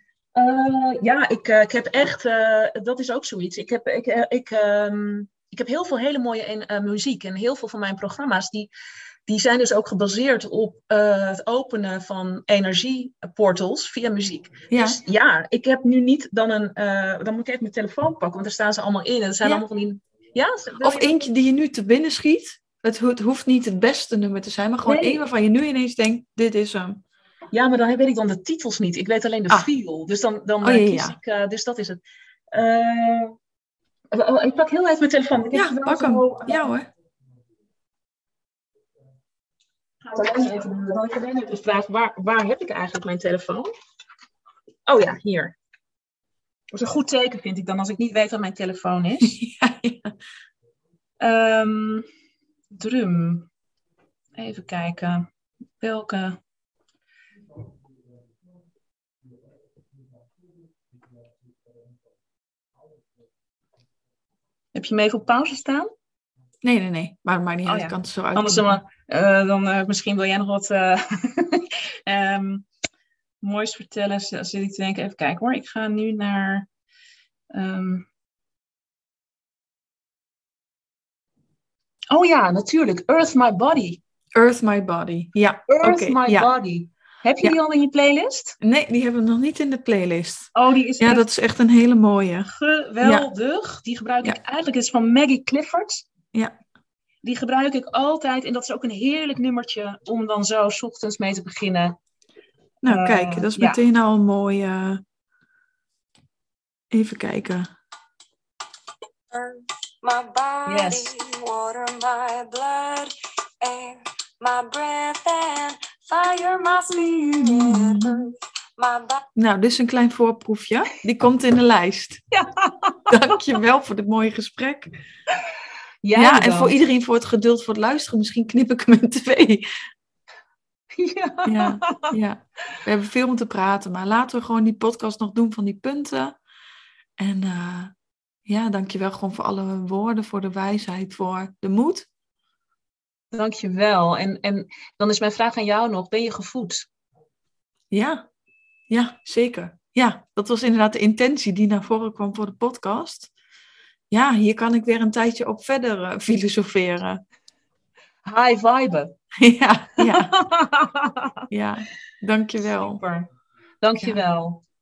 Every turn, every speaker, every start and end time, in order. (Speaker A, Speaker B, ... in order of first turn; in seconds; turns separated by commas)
Speaker A: 0.3-8.7, Speaker A: 9.3-21.2, Speaker B: 14.7-15.0, Speaker B: 20.8-27.0, Speaker A: 24.8-25.2, Speaker A: 27.5-32.0, Speaker B: 30.6-31.2, Speaker A: 32.5-33.3, Speaker A: 34.1-36.7, Speaker B: 35.5-36.9, Speaker A: 40.0-43.7, Speaker A: 44.9-45.5, Speaker A: 46.7-49.4, Speaker B: 49.2-50.2, Speaker A: 51.2-52.0, Speaker A: 52.7-53.5, Speaker A: 54.4-55.2, Speaker A: 55.8-56.4, Speaker A: 64.7-65.9, Speaker B: 66.6-68.8, Speaker A: 67.7-72.7, Speaker A: 73.4-76.7, Speaker A: 77.5-78.1, Speaker A: 82.1-84.0, Speaker B: 84.3-86.5, Speaker A: 85.7-88.6, Speaker B: 88.6-93.3, Speaker A: 90.5-91.3, Speaker A: 92.5-96.0, Speaker A: 97.2-102.0, Speaker B: 102.8-105.0, Speaker A: 102.8-103.8, Speaker B: 106.9-107.7, Speaker C: 109.3-119.3, Speaker A: 110.7-111.1, Speaker B: 119.3-122.2, Speaker A: 122.3-123.2, Speaker B: 123.1-124.9, Speaker A: 126.0-126.8, Speaker B: 126.1-129.9, Speaker A: 130.9-132.2, Speaker B: 131.4-136.4, Speaker B: 137.2-137.9, Speaker B: 138.4-142.1, Speaker A: 143.3-146.9, Speaker B: 147.9-148.3, Speaker B: 148.9-153.3, Speaker B: 154.1-157.2, Speaker A: 158.2-159.2, Speaker B: 159.4-160.3, Speaker A: 160.0-161.4, Speaker B: 161.5-163.0, Speaker A: 162.8-163.3, Speaker A: 163.8-164.6